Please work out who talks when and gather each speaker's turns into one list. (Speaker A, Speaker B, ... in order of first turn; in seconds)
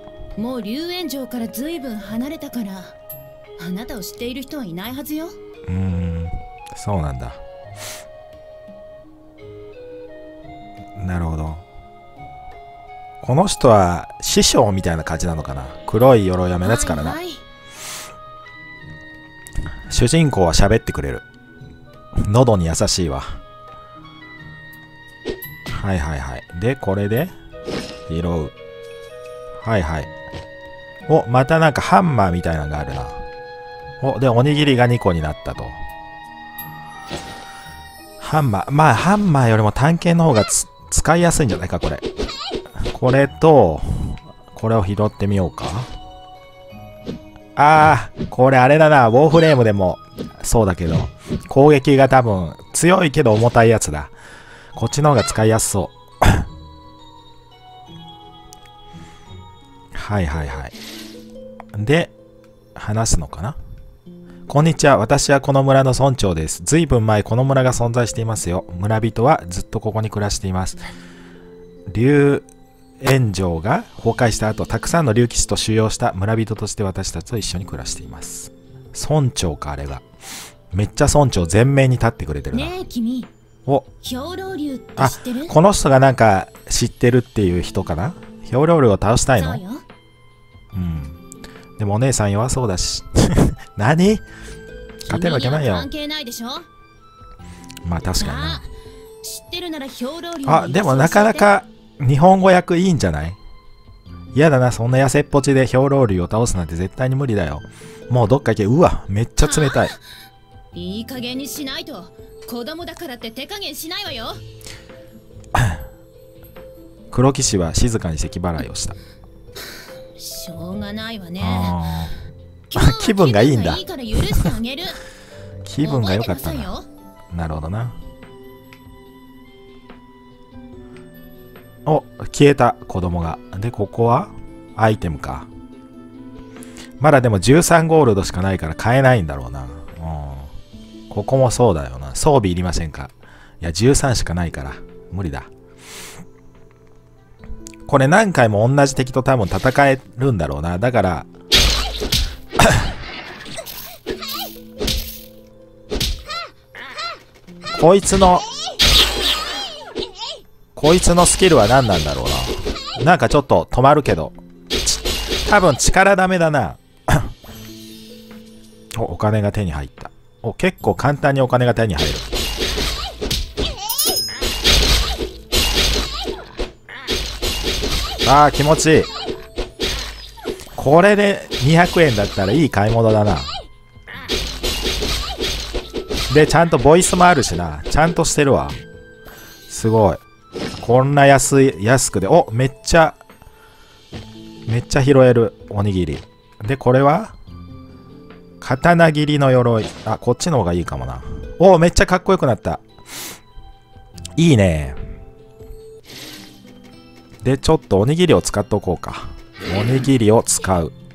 Speaker A: 0.4-2.9, 3.6-5.3, 16.6-17.4, 82.5-83.3, 84.0-85.5, 89.4-89.8, 95.0-96.7, 98.2-98.7, 99.2-101.5, 109.4-110.0, 110.7-114.4, 119.6-121.8, 122.7-125.0, 125.8-126.8
Speaker B: 5.7-7.4, 11.0-11.6, 13.2-17.2, 19.9-21.2, 22.2-23.4, 25.7-27.3, 28.1-28.5, 29.6-30.1, 31.1-33.2, 34.0-35.8, 38.2-42.0, 42.8-45.9, 47.5-54.1, 54.8-56.5, 59.9-60.7, 61.7-62.1, 62.7-63.6, 64.5-70.8, 71.9-72.4, 73.0-80.0, 80.7-82.7, 85.0-89.6, 90.7-91.2, 91.8-94.2, 95.0-95.9, 97.8-98.6, 100.5-103.4, 104.3-109.9, 115.5-115.8, 117.1-119.0, 121.4-122.1, 122.8-124.4, 125.6-126.7, 127.3-128.0, 131.8-135.5, 137.0-140.5, 141.1-145.5, 147.9-151.3, 152.6-152.9, 157.7-158.5, 160.8-167.3, 168.9-172.3, 178.2-179.1, 180.8-183.5, 186.3-188.8, 189.7-190.2, 190.8-193.2, 194.7-197.3, 198.6-202.8, 204.3-205.0, 207.4-210.9